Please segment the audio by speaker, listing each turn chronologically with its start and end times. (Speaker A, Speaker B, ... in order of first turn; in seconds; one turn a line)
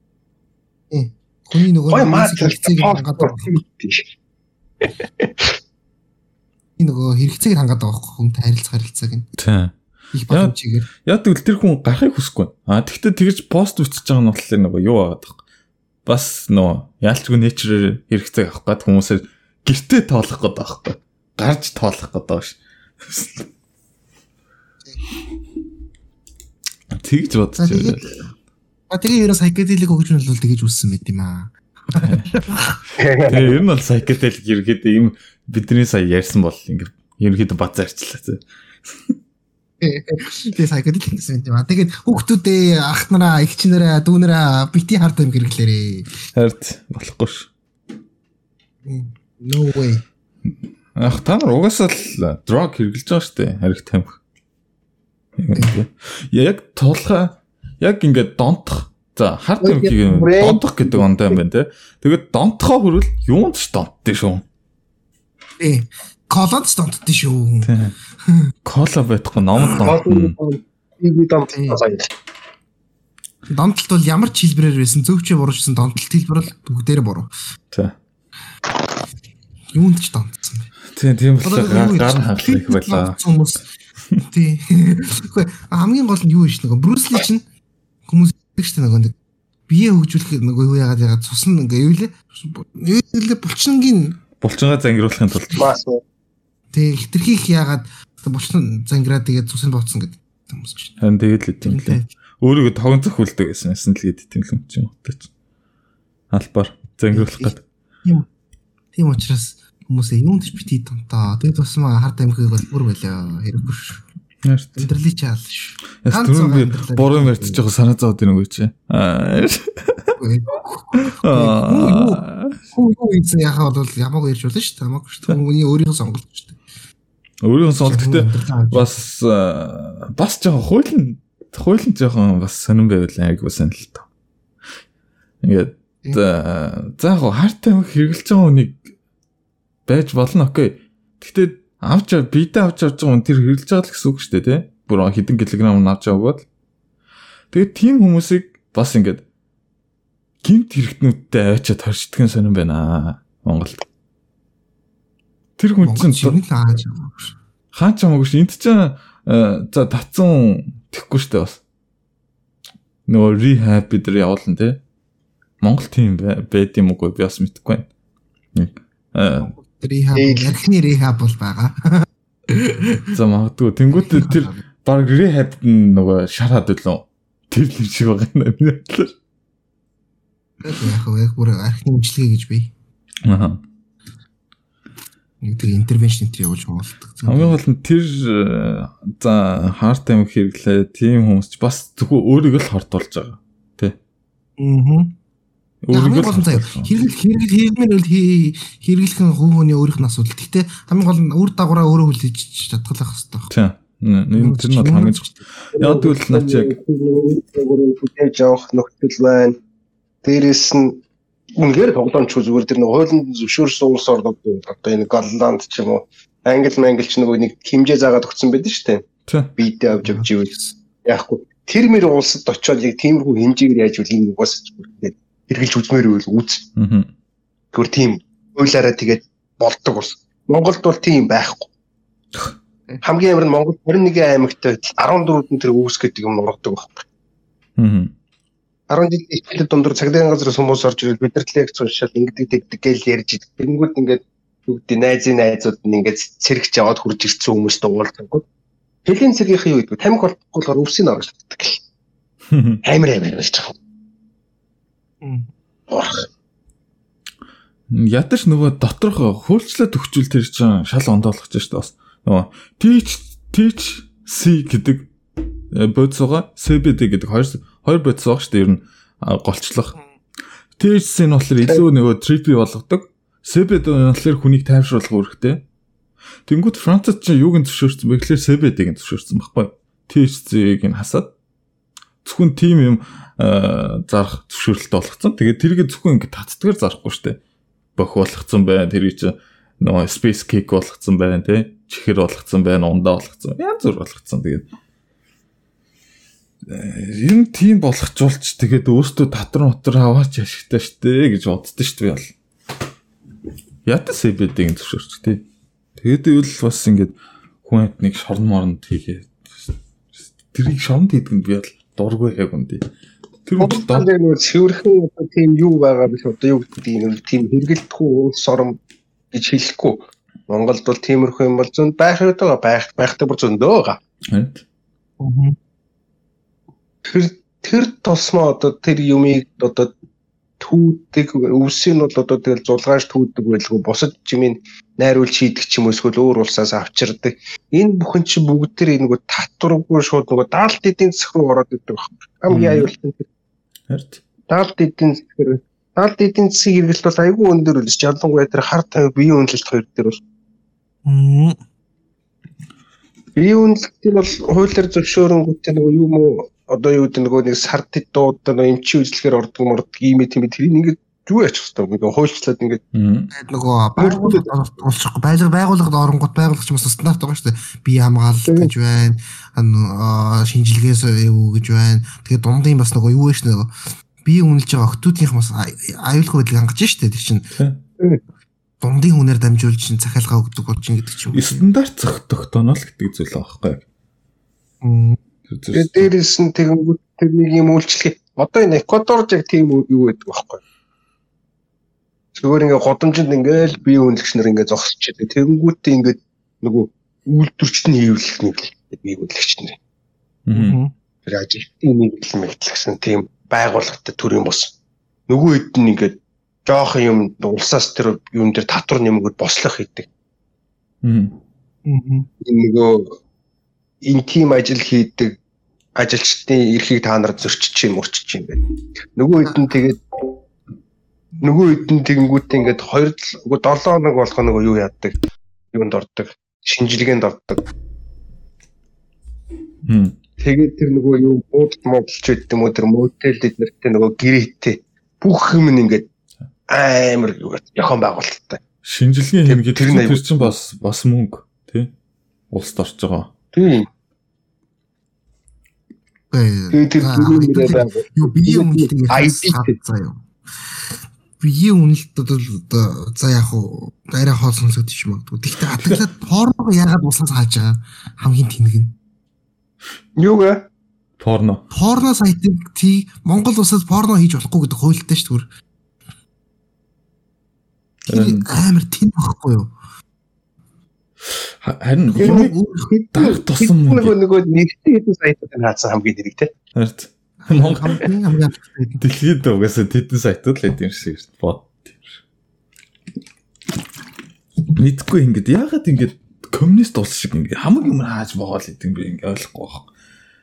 Speaker A: 0.9-3.5
Speaker B: 1.9-4.1
Speaker B: 4.8-5.5
Speaker A: 6.8-9.3
Speaker C: 9.4-9.8
Speaker A: 10.1-10.9
Speaker C: 11.1-15.4
Speaker C: 16.1-23.5
Speaker C: 26.9-28.2
Speaker A: 27.6-28.3
Speaker A: 28.9-32.8
Speaker C: 32.0-32.3
Speaker C: 32.9-38.4
Speaker B: 33.0-33.6
Speaker A: 39.8-46.1
Speaker C: 46.4-47.5
Speaker A: 48.9-50.0
Speaker C: 51.0-54.2
Speaker C: 55.4-64.5
Speaker B: 59.6-61.4
Speaker A: 65.6-67.7
Speaker C: 67.6-68.0
Speaker A: 68.2-68.5
Speaker C: 68.7-70.3
Speaker B: 69.8-72.1
Speaker A: 71.5-71.8
Speaker A: 73.5-77.3
Speaker A: 79.7-80.7
Speaker C: 80.9-83.2
Speaker A: 81.4-83.6
Speaker A: 84.3-87.5
Speaker A: 88.1-89.2
Speaker A: 89.7-94.2
Speaker C: 94.4-95.7
Speaker B: 95.6-96.0
Speaker A: 96.7-101.0
Speaker C: 101.0-105.3
Speaker A: 101.6-102.1
Speaker C: 106.3-107.6
Speaker A: 107.1-107.5
Speaker A: 108.9-114.0
Speaker C: 114.5-114.9
Speaker A: 114.8-117.6
Speaker C: 116.0-120.2
Speaker A: 120.2-126.6
Speaker C: 121.0-122.6
Speaker C: 127.4-134.1
Speaker A: 127.8-129.0
Speaker C: 135.4-138.8
Speaker C: 139.9-146.4
Speaker C: 147.5-149.2
Speaker C: 150.4-153.8
Speaker C: 155.6-156.4
Speaker A: 155.8-157.4
Speaker C: 157.7-161.6
Speaker C: 163.1-164.8
Speaker C: 165.6-167.9
Speaker C: 168.6-169.6
Speaker A: 169.4-173.2
Speaker B: 170.2-170.5
Speaker C: 173.1-179.2
Speaker A: 173.9-174.6
Speaker A: 180.6-182.7
Speaker C: 183.3-183.6
Speaker A: 185.4-187.6
Speaker C: 187.2-194.0
Speaker A: 194.6-195.2
Speaker C: 195.8-196.9
Speaker A: 195.9-203.5
Speaker C: 203.5-206.7
Speaker A: 204.4-205.4
Speaker B: 205.8-209.6
Speaker B: 210.2-211.0
Speaker B: 211.6-226.7
Speaker C: 219.3-219.5
Speaker A: 220.0-220.8
Speaker C: 226.8-227.1
Speaker B: 227.7-231.7
Speaker B: 233.0-237.0
Speaker C: 237.8-238.1
Speaker B: 238.9-248.4
Speaker B: 249.1-251.8
Speaker C: 252.5-252.8
Speaker B: 252.8-253.8
Speaker A: 255.2-255.5
Speaker B: 255.9-256.3
Speaker C: 257.9-265.1
Speaker C: 265.7-269.9
Speaker C: 270.8-275.6
Speaker C: 276.5-281.3
Speaker C: 282.2-287.4
Speaker C: 288.0-294.7
Speaker C: 296.7-302.3
Speaker C: 303.9-305.4
Speaker C: 306.0-309.7
Speaker C: 310.4-312.9
Speaker C: 313.4-314.1
Speaker B: 313.6-318.8
Speaker B: 319.3-324.0
Speaker C: 324.3-324.6
Speaker A: 325.2-325.6
Speaker B: 327.1-329.9
Speaker B: 330.6-343.3
Speaker C: 342.5-342.9
Speaker C: 343.9-344.2
Speaker B: 344.5-350.2
Speaker A: 351.1-351.6
Speaker B: 353.4-362.8
Speaker C: 362.9-363.3
Speaker A: 363.3-373.7
Speaker B: 364.0-364.4
Speaker A: 374.2-377.5
Speaker A: 378.8-381.6
Speaker C: 381.3-383.8
Speaker A: 384.8-385.2
Speaker C: 385.5-386.1
Speaker B: 385.7-390.6
Speaker B: 392.4-399.8
Speaker C: 400.5-400.8
Speaker A: 400.5-400.9
Speaker B: 401.3-404.7
Speaker B: 405.3-410.1
Speaker C: 411.0-411.4
Speaker A: 411.9-412.3
Speaker B: 412.4-413.2
Speaker B: 414.0-415.4
Speaker B: 416.0-418.6
Speaker B: 419.2-420.0
Speaker B: 421.4-425.2
Speaker B: 425.7-427.7
Speaker C: 429.9-430.2
Speaker B: 430.4-436.1
Speaker B: 436.7-438.6
Speaker C: 438.8-441.9
Speaker B: 439.4-440.5
Speaker C: 442.5-443.3
Speaker B: 443.5-443.9
Speaker A: 446.3-450.2
Speaker B: 446.7-449.8
Speaker A: 451.4-459.0
Speaker C: 455.7-456.0
Speaker B: 460.2-460.6
Speaker C: 461.2-461.6
Speaker A: 461.7-465.5
Speaker A: 468.1-469.7
Speaker C: 468.1-468.5
Speaker C: 471.3-472.5
Speaker A: 472.1-473.0
Speaker B: 473.1-476.5
Speaker C: 473.1-474.1
Speaker C: 476.8-478.1
Speaker A: 477.4-479.0
Speaker C: 479.0-482.2
Speaker C: 484.8-489.9